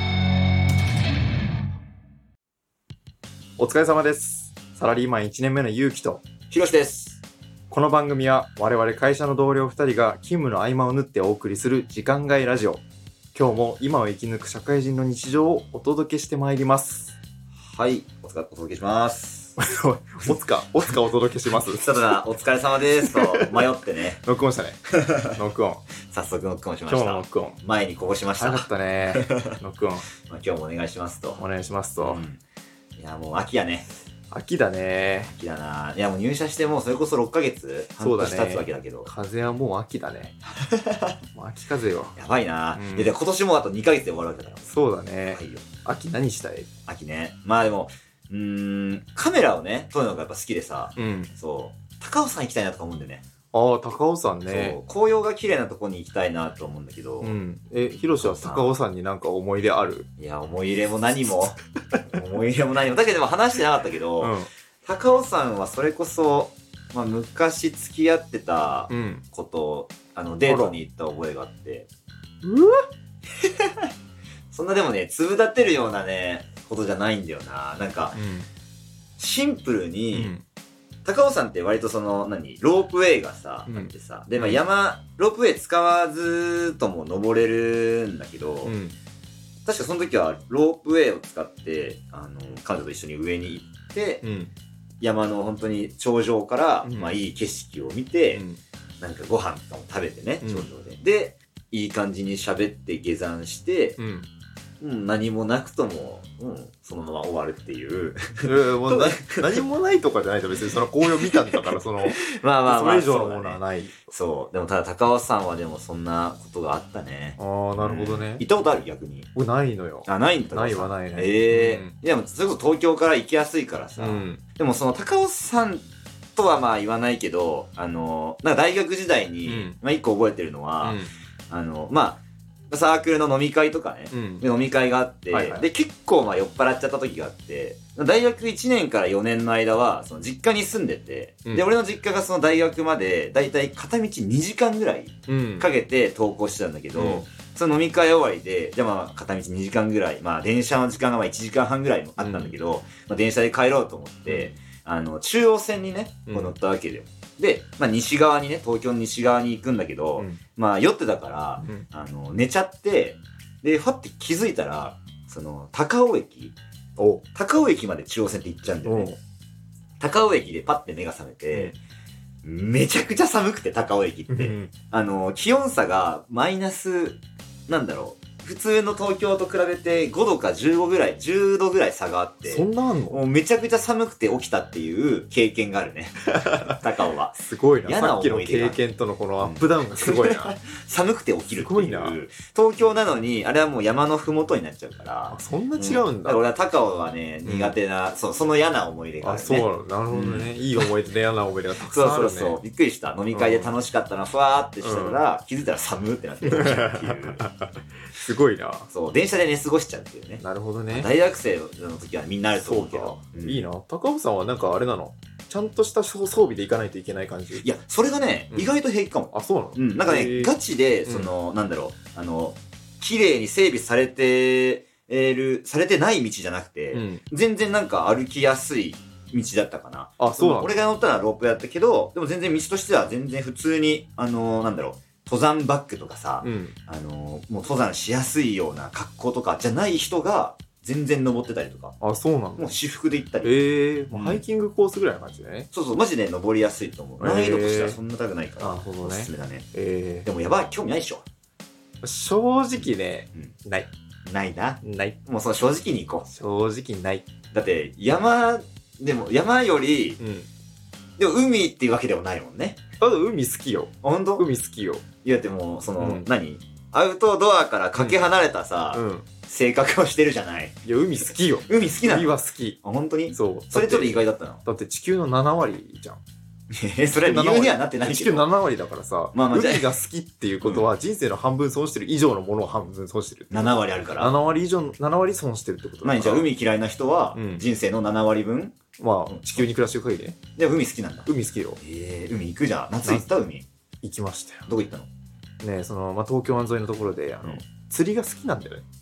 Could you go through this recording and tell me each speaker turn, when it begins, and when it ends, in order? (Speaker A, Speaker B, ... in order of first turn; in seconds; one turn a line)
Speaker A: 3.6-6.2
Speaker B: 6.5-7.2
Speaker A: 7.7-12.8
Speaker A: 13.3-17.1
Speaker B: 17.6-19.6
Speaker A: 19.6-21.9
Speaker B: 21.5-24.2
Speaker A: 23.0-23.7
Speaker A: 24.2-25.8
Speaker B: 26.1-29.6
Speaker A: 26.9-27.6
Speaker A: 28.4-30.1
Speaker B: 30.3-31.4
Speaker A: 31.4-32.2
Speaker B: 32.0-32.4
Speaker B: 33.0-33.9
Speaker A: 34.3-35.3
Speaker B: 35.2-39.1
Speaker A: 38.0-40.4
Speaker B: 40.6-41.2
Speaker A: 41.3-42.1
Speaker B: 42.1-44.7
Speaker A: 42.7-43.1
Speaker A: 44.6-46.7
Speaker B: 45.3-45.7
Speaker B: 46.9-53.2
Speaker A: 51.0-51.3
Speaker A: 53.5-54.8
Speaker B: 54.5-57.4
Speaker A: 57.2-60.1
Speaker B: 58.2-58.7
Speaker B: 60.2-61.6
Speaker B: 62.1-64.3
Speaker A: 64.2-64.5
Speaker B: 64.8-71.9
Speaker A: 68.9-69.2
Speaker A: 70.5-70.8
Speaker A: 72.4-72.8
Speaker B: 73.4-73.9
Speaker B: 74.5-78.2
Speaker A: 78.1-78.5
Speaker B: 79.2-80.3
Speaker A: 80.1-80.4
Speaker B: 81.0-88.7
Speaker A: 83.7-84.6
Speaker A: 88.6-89.0
Speaker B: 89.6-94.2
Speaker A: 94.2-94.5
Speaker B: 95.0-98.4
Speaker A: 96.8-97.2
Speaker A: 98.3-98.6
Speaker B: 99.0-104.0
Speaker A: 100.4-100.7
Speaker A: 104.0-104.3
Speaker B: 104.8-109.6
Speaker A: 108.4-114.1
Speaker B: 111.0-119.3
Speaker A: 117.4-118.5
Speaker A: 119.3-122.0
Speaker B: 120.0-166.6
Speaker A: 124.0-124.4
Speaker A: 129.4-129.8
Speaker A: 130.8-131.1
Speaker A: 134.1-134.4
Speaker A: 135.3-135.7
Speaker A: 145.3-145.7
Speaker A: 146.9-147.3
Speaker A: 152.2-152.5
Speaker A: 154.3-154.5
Speaker A: 156.3-156.5
Speaker A: 161.6-161.8
Speaker A: 167.0-167.2
Speaker B: 167.3-169.1
Speaker A: 168.8-169.2
Speaker B: 170.0-171.7
Speaker B: 172.4-188.8
Speaker A: 174.3-174.7
Speaker A: 182.4-183.2
Speaker A: 186.3-186.8
Speaker A: 187.3-190.5
Speaker B: 189.4-200.9
Speaker A: 191.6-192.2
Speaker A: 195.3-196.4
Speaker A: 197.4-197.8
Speaker A: 199.2-202.6
Speaker B: 201.8-207.4
Speaker A: 203.3-203.7
Speaker A: 204.8-205.2
Speaker A: 206.4-208.9
Speaker B: 208.9-213.7
Speaker A: 210.4-211.1
Speaker A: 212.5-217.7
Speaker B: 217.5-241.9
Speaker A: 219.3-220.5
Speaker A: 221.1-221.3
Speaker A: 226.9-227.2
Speaker A: 230.2-230.7
Speaker A: 236.4-236.7
Speaker A: 242.0-242.7
Speaker B: 242.6-244.4
Speaker A: 243.4-245.7
Speaker B: 245.7-249.7
Speaker A: 247.2-248.0
Speaker A: 248.6-250.3
Speaker B: 250.2-251.2
Speaker A: 252.0-253.9
Speaker B: 254.3-256.2
Speaker A: 254.8-255.2
Speaker A: 256.2-257.3
Speaker B: 257.5-260.2
Speaker A: 260.2-260.5
Speaker B: 261.2-262.8
Speaker A: 263.0-265.0
Speaker B: 264.0-264.4
Speaker B: 265.2-274.6
Speaker A: 266.0-266.3
Speaker A: 268.9-269.3
Speaker A: 270.8-272.8
Speaker A: 273.3-276.2
Speaker B: 276.7-278.5
Speaker A: 277.2-286.5
Speaker B: 279.3-279.9
Speaker B: 280.6-280.9
Speaker B: 283.5-284.4
Speaker B: 286.0-288.7
Speaker A: 287.3-287.6
Speaker A: 289.0-290.4
Speaker B: 289.3-289.6
Speaker B: 290.6-291.3
Speaker A: 291.3-291.8
Speaker B: 291.8-293.6
Speaker A: 293.0-293.3
Speaker A: 294.0-294.7
Speaker B: 294.7-295.1
Speaker A: 295.6-298.8